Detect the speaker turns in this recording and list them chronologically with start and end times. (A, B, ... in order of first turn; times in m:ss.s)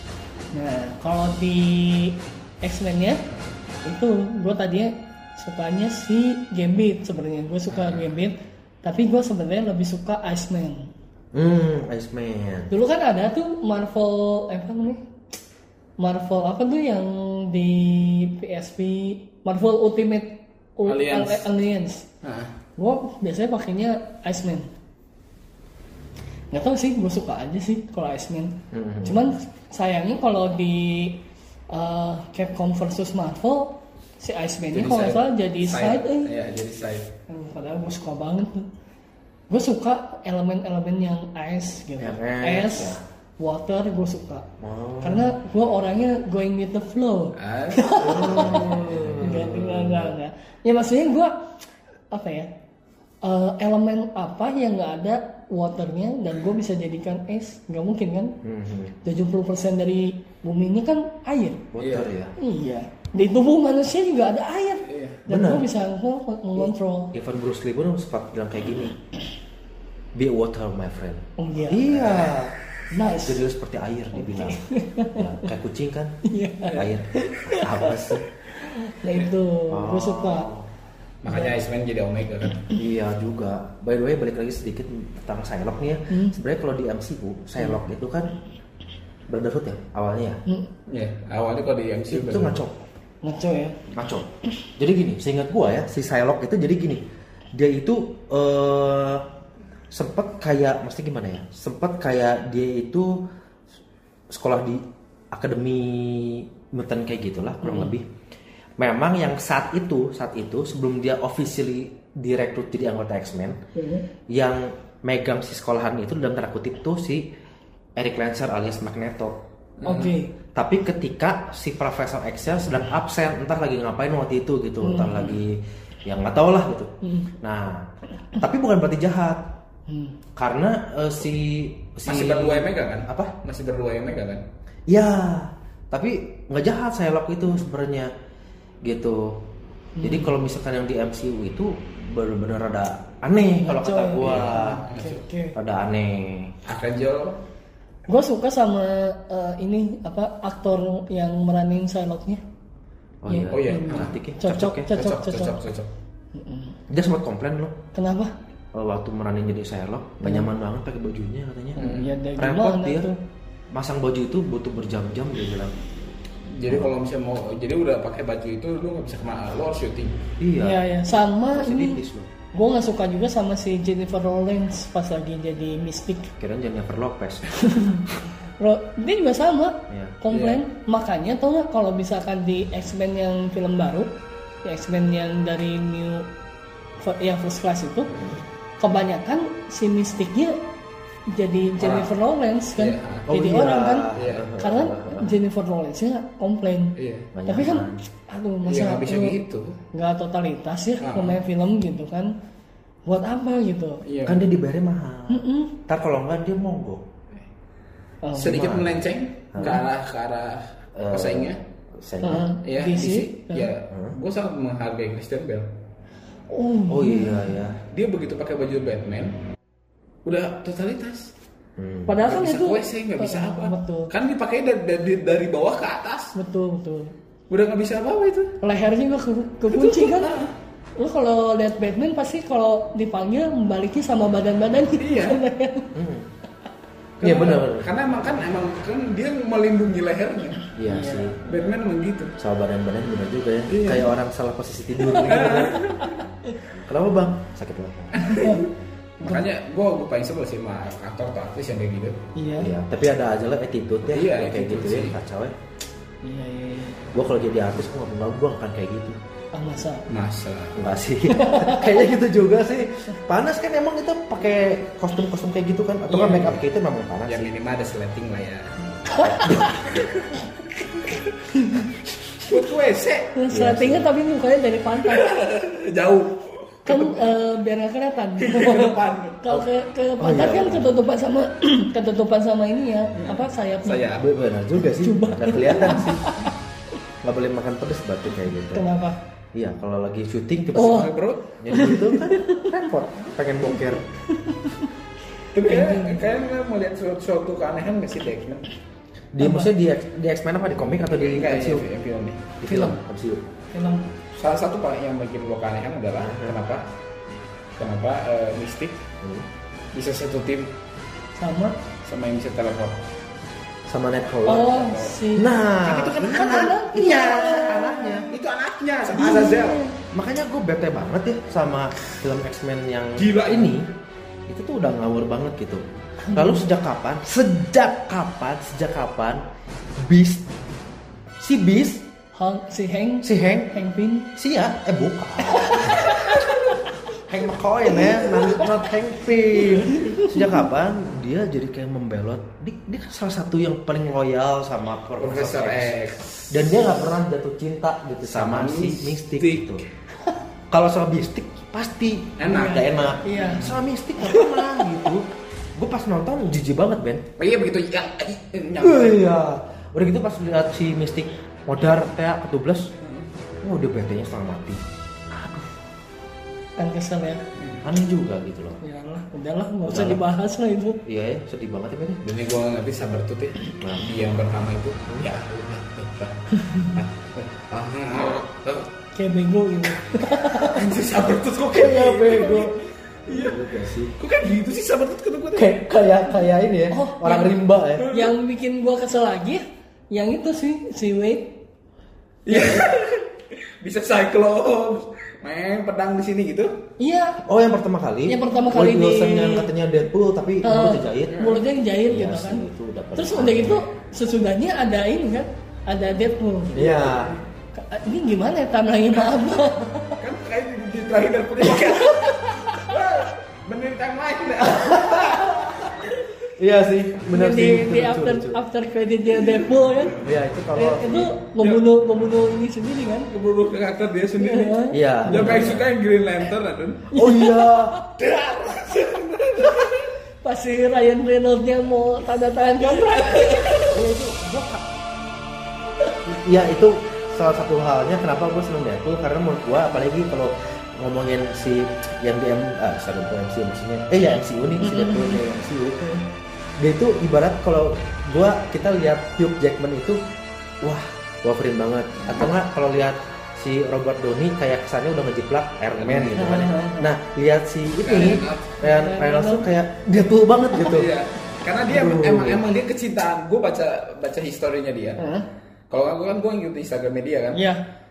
0:00.5-0:03.2 A
0:03.8-0:10.9 A
0:07.7-0:08.0 B
0:11.3-0:12.7 C
0:12.7-0:15.0 A
0:16.0-0:22.1 A
0:20.9-0:21.5 B
0:22.2-0:22.5 B
0:22.8-0:24.7 A
0:26.5-0:36.3 A
0:28.7-0:29.3 C
0:34.7-0:37.1 B
0:37.3-0:38.7 A
0:39.5-0:44.5 A
0:42.0-0:43.0 C
0:44.6-0:45.4 C
0:45.0-0:51.4 A
0:47.4-0:49.2 B
0:48.0-0:50.1 C
0:52.1-0:52.5 A
0:53.2-0:58.4 A
0:58.4-0:58.9 C
0:59.0-1:01.6 A
1:01.7-1:02.3 C
1:01.8-1:02.1 B
1:02.4-1:07.1 A
1:04.9-1:05.2 B
1:05.3-1:05.7 C
1:07.1-1:09.0 C
1:10.2-1:12.5 C
1:11.4-1:11.9 A
1:11.9-1:12.4 B
1:12.9-1:13.4 A
1:13.1-1:16.2 C
1:14.2-1:15.3 A
1:16.2-1:20.5 A
1:16.7-1:18.2 C
1:19.7-1:20.7 C
1:21.2-1:22.6 B
1:22.7-1:28.3 C
1:26.1-1:26.4 A
1:29.3-1:30.4 C
1:30.9-1:32.6 B
1:32.1-1:32.8 C
1:33.2-1:33.8 A
1:33.9-1:39.3 C
1:39.9-1:43.2 C
1:44.3-1:48.1 C
1:47.6-1:47.9 A
1:48.8-1:53.6 C
1:53.8-1:54.0 A
1:54.3-1:57.3 C
1:58.0-1:59.4 C
1:59.8-2:00.2 B
1:59.8-2:00.3 A
2:00.6-2:07.9 C
2:04.8-2:05.4 A
2:07.0-2:07.3 A
2:08.4-2:09.5 C
2:09.9-2:10.2 A
2:10.4-2:13.4 C
2:12.0-2:14.4 B
2:14.9-2:18.1 C
2:18.8-2:19.4 C
2:20.0-2:20.3 A
2:20.0-2:24.8 C
2:23.6-2:25.6 A
2:24.2-2:25.2 B
2:25.6-2:26.6 C
2:26.6-2:27.4 B
2:28.1-2:32.4 A
2:33.2-2:34.9 C
2:33.3-2:35.6 A
2:33.5-2:34.2 B
2:34.9-2:35.9 B
2:36.4-2:36.8 A
2:36.9-2:37.8 C
2:37.9-2:38.3 A
2:38.7-2:43.1 C
2:40.2-2:40.5 A
2:41.8-2:43.2 A
2:41.8-2:42.1 B
2:43.7-2:45.7 C
2:46.5-2:50.2 B
2:50.4-2:50.8 C
2:50.6-2:52.0 A
2:51.5-2:52.3 C
2:52.5-2:56.3 A
2:56.4-2:57.9 C
2:57.6-2:58.1 A
2:58.6-3:04.1 A
2:59.9-3:00.2 C
3:00.3-3:00.6 B
3:04.6-3:06.3 A
3:07.0-3:08.1 A
3:08.8-3:10.6 A
3:11.3-3:17.0 A
3:11.8-3:12.1 B
3:12.8-3:13.3 B
3:13.3-3:15.3 C
3:14.1-3:14.5 B
3:17.0-3:17.3 B
3:17.3-3:18.0 C
3:17.5-3:19.4 A
3:18.7-3:19.8 B
3:19.9-3:22.3 A
3:21.0-3:21.4 B
3:23.1-3:24.0 A
3:24.0-3:24.4 B
3:24.2-3:27.0 C
3:25.3-3:25.8 A
3:28.2-3:28.6 A
3:28.4-3:31.6 B
3:28.4-3:29.8 C
3:31.0-3:32.5 C
3:32.2-3:33.7 A
3:32.6-3:35.7 B
3:36.5-3:37.5 A
3:36.9-3:37.8 C
3:37.9-3:39.4 B
3:40.2-3:41.3 B
3:41.8-3:42.2 C
3:42.1-3:44.1 A
3:42.2-3:46.3 B
3:46.4-3:47.1 A
3:47.5-3:48.6 B
3:48.6-3:55.9 A
3:49.7-3:50.5 B
3:55.0-3:55.4 B
3:55.9-3:56.3 C
3:57.2-3:57.9 C
3:57.2-4:00.6 B
4:00.8-4:01.4 C
4:00.9-4:01.8 A
4:01.5-4:02.3 B
4:02.4-4:05.8 C
4:03.7-4:04.1 B
4:05.1-4:06.6 A
4:05.2-4:06.2 B
4:06.7-4:08.3 C
4:08.2-4:12.2 B
4:08.3-4:08.6 A
4:12.4-4:12.7 A
4:12.6-4:15.6 C
4:14.1-4:15.2 B
4:16.2-4:17.0 A
4:17.1-4:19.2 C
4:19.5-4:20.0 A
4:20.1-4:20.8 B
4:20.8-4:27.5 C
4:21.3-4:22.0 A
4:26.1-4:26.6 B
4:27.3-4:28.8 B
4:29.1-4:29.8 A
4:29.2-4:29.8 C
4:29.9-4:30.3 B
4:31.5-4:31.9 A
4:32.4-4:33.3 B
4:33.4-4:35.3 A
4:33.5-4:34.1 C
4:35.0-4:37.2 B
4:36.9-4:44.1 A
4:38.4-4:39.4 B
4:40.2-4:40.9 C
4:43.2-4:44.3 B
4:44.2-4:46.3 C
4:44.8-4:46.5 A
4:47.2-4:48.9 C
4:48.7-4:49.2 A
4:49.5-4:54.0 C
4:50.8-4:51.2 A
4:50.8-4:51.5 B
4:51.7-4:52.7 A
4:54.3-4:54.9 A
4:55.5-4:58.7 B
4:55.7-4:56.3 A
4:59.3-5:01.9 C
4:59.4-4:59.7 A
5:01.2-5:02.5 B
5:02.6-5:03.4 C
5:02.7-5:03.0 A
5:03.7-5:04.1 A
5:04.4-5:06.8 B
5:06.2-5:06.6 C
5:07.8-5:09.0 B
5:09.9-5:10.7 B
5:11.4-5:11.8 A
5:12.0-5:13.0 B
5:13.9-5:14.8 C
5:14.5-5:15.5 A
5:14.6-5:15.2 B
5:15.4-5:18.3 C
5:15.8-5:19.8 B
5:16.3-5:18.3 A
5:19.2-5:20.0 A
5:20.1-5:23.9 C
5:23.2-5:23.8 B
5:24.5-5:25.8 C
5:26.3-5:26.6 A
5:26.3-5:29.4 C
5:30.0-5:30.5 C
5:31.4-5:32.0 C
5:32.3-5:34.3 A
5:33.2-5:33.7 C
5:34.4-5:36.3 C
5:35.5-5:36.8 A
5:37.2-5:45.9 C
5:37.9-5:38.8 A
5:39.6-5:40.4 A
5:45.2-5:46.9 B
5:46.5-5:49.8 C
5:48.3-5:49.8 B
5:50.7-5:57.3 C
5:52.4-5:53.7 B
5:52.5-5:53.7 A
5:57.4-5:59.3 B
5:58.8-6:02.9 C
6:03.6-6:05.7 C
6:06.8-6:07.4 A
6:07.6-6:07.8 B
6:07.8-6:08.8 C
6:08.8-6:11.0 A
6:09.8-6:10.2 C
6:11.0-6:12.2 C
6:12.2-6:18.9 B
6:13.8-6:14.1 C
6:16.6-6:16.9 A
6:19.2-6:20.9 A
6:20.6-6:22.7 B
6:21.7-6:22.8 C
6:23.3-6:25.8 B
6:23.3-6:24.1 C
6:25.6-6:28.1 C
6:26.9-6:31.6 A
6:28.0-6:28.3 B
6:32.5-6:36.8 B
6:32.5-6:32.9 C
6:37.0-6:37.4 A
6:37.4-6:41.5 C
6:38.3-6:39.7 A
6:40.6-6:42.6 A
6:41.3-6:41.6 B
6:42.0-6:43.8 C
6:43.2-6:47.0 A
6:46.7-6:47.4 C
6:46.8-6:47.4 B
6:47.7-6:50.2 A
6:50.2-6:56.1 B
6:51.9-6:52.9 A
6:54.7-6:58.6 C
6:57.3-7:00.2 A
7:00.1-7:01.3 C
7:00.8-7:03.3 A
7:01.6-7:01.9 B
7:03.3-7:07.1 B
7:04.4-7:05.6 A
7:04.9-7:05.9 C
7:07.1-7:08.0 C
7:07.1-7:08.1 A
7:08.2-7:10.1 B
7:10.4-7:13.9 A
7:12.8-7:14.0 B
7:13.9-7:14.9 C
7:16.2-7:26.3 C
7:24.8-7:25.4 A
7:26.8-7:30.2 C
7:30.8-7:41.1 C
7:36.0-7:36.6 B
7:36.4-7:37.1 A
7:38.0-7:38.7 B
7:38.8-7:39.7 A
7:40.8-7:45.2 B
7:41.9-7:42.6 C
7:45.2-7:45.5 A
7:45.9-7:47.6 B
7:47.5-7:47.8 A